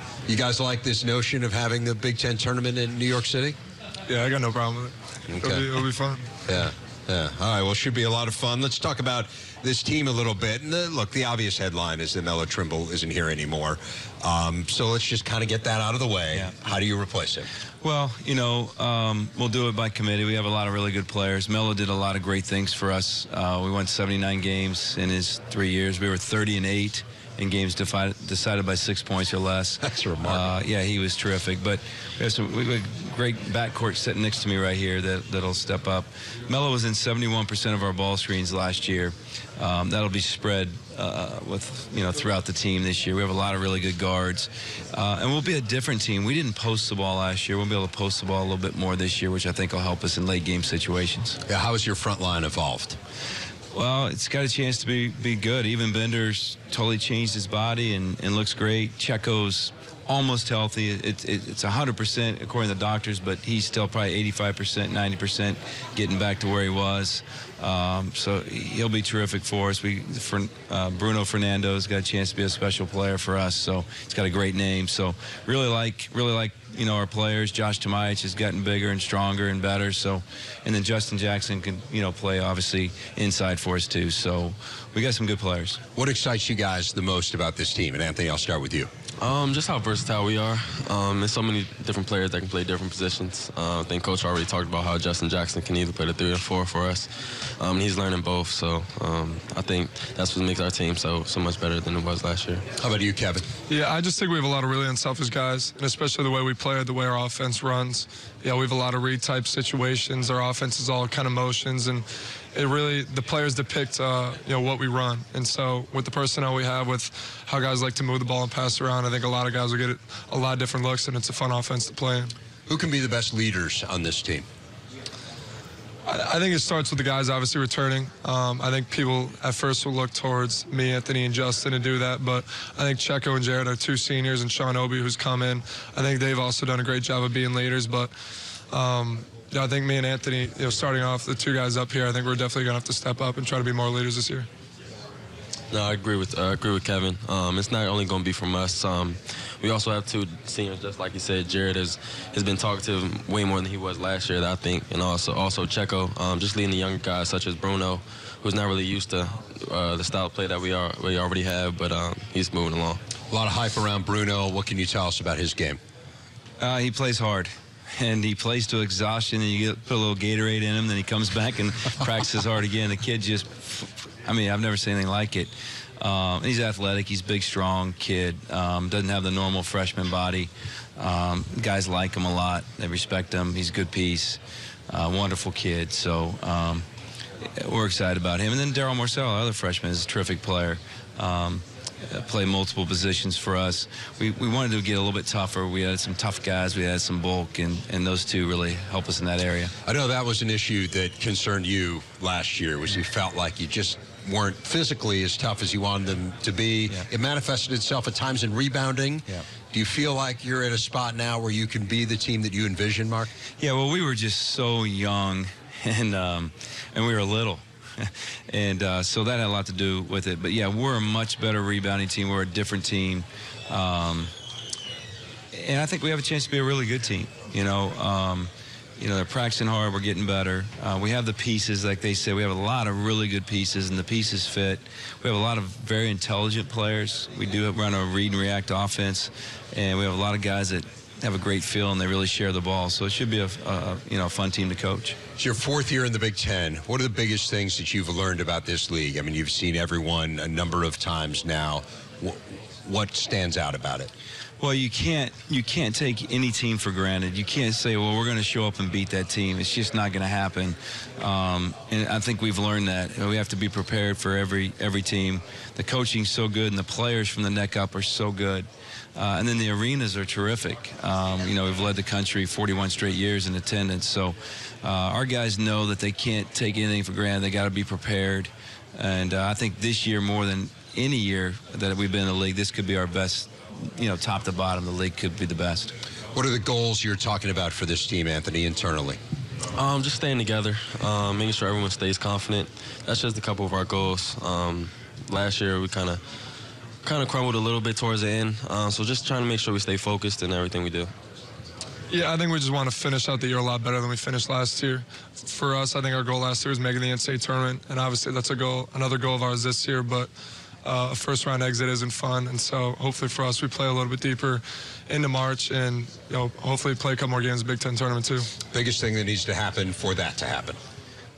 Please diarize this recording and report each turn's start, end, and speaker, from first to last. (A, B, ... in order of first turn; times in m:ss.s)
0:00.3-0:03.6 A
0:04.1-0:06.3 B
0:05.3-0:05.7 A
0:06.5-0:17.5 A
0:17.8-0:51.4 C
0:29.8-0:30.5 A
0:51.5-0:53.0 A
0:53.7-1:25.8 C
1:26.0-1:28.9 A
1:29.2-1:42.6 D
1:42.8-1:43.4 A
1:43.7-2:02.3 B
2:02.7-2:04.4 A
2:06.1-2:18.1 B
2:18.7-2:24.5 B
2:25.7-2:43.0 D
2:43.3-2:45.8 A
2:46.6-3:06.8 C
3:07.4-3:19.7 C
3:19.8-3:33.3 A
3:33.6-3:44.3 C
3:45.5-4:05.2 C
4:05.4-4:14.1 A
4:14.6-4:45.9 C
4:46.3-4:49.2 A
4:49.8-4:56.2 D
4:57.0-5:01.1 D
5:02.1-5:10.3 B
5:10.8-5:18.5 B
5:18.7-5:20.8 A